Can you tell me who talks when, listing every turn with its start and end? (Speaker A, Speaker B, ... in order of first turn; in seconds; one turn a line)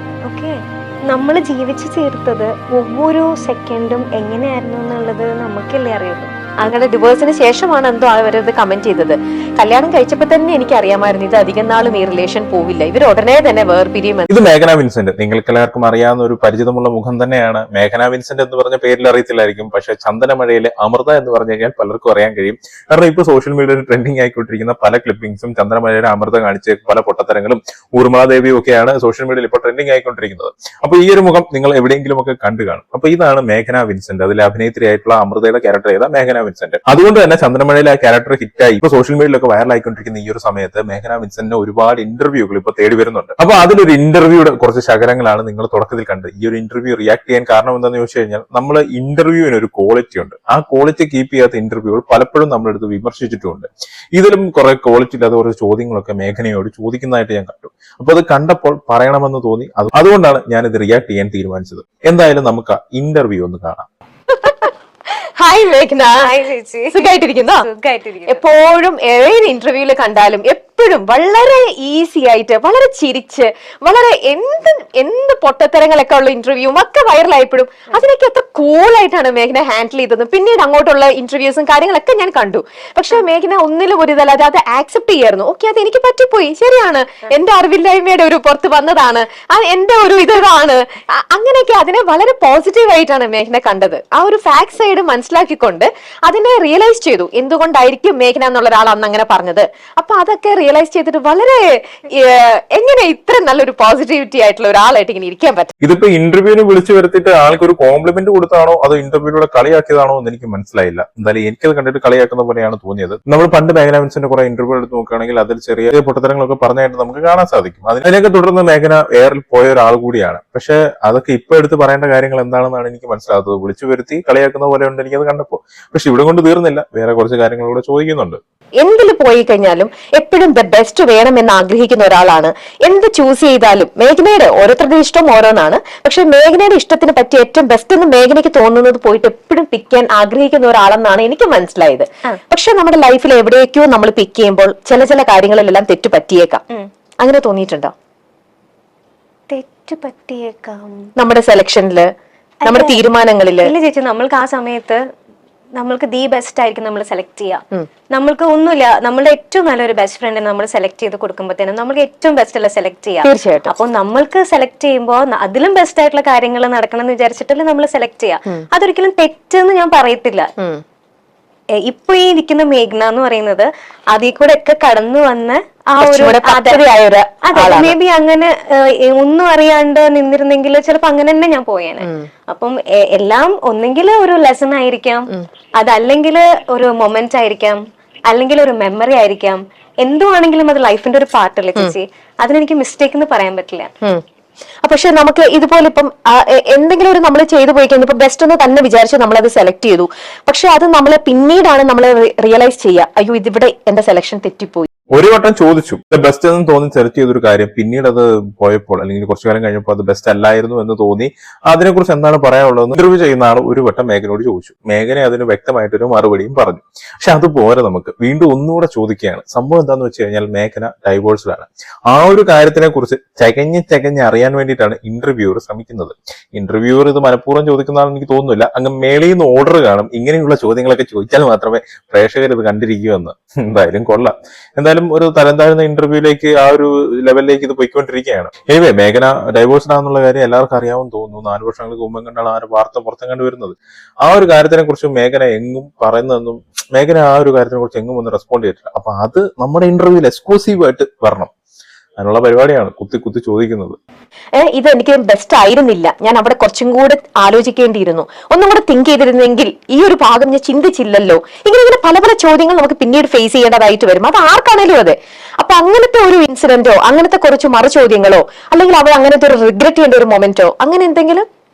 Speaker A: 0.2-0.6
Speaker A: 1.1-6.3
Speaker B: 6.6-14.3
Speaker C: 14.3-63.9
Speaker B: 64.3-66.2
Speaker A: 66.2-67.0
Speaker B: 66.9-67.6
Speaker A: 67.6-68.4
Speaker B: 68.3-105.7
Speaker C: 105.8-128.4
Speaker B: 128.8-146.6
Speaker B: 147.2-147.9
Speaker A: 149.5-151.1
Speaker B: 151.2-152.1
Speaker A: 152.6-153.0
Speaker B: 152.6-153.7
Speaker A: 153.6-155.0
Speaker A: 155.7-157.6
Speaker A: 158.1-170.5
Speaker B: 163.2-163.7
Speaker A: 171.8-176.8
Speaker B: 176.0-177.9
Speaker A: 177.4-193.9
Speaker B: 194.8-204.9
Speaker C: 205.1-251.5
Speaker C: 252.2-254.0
Speaker B: 254.6-271.4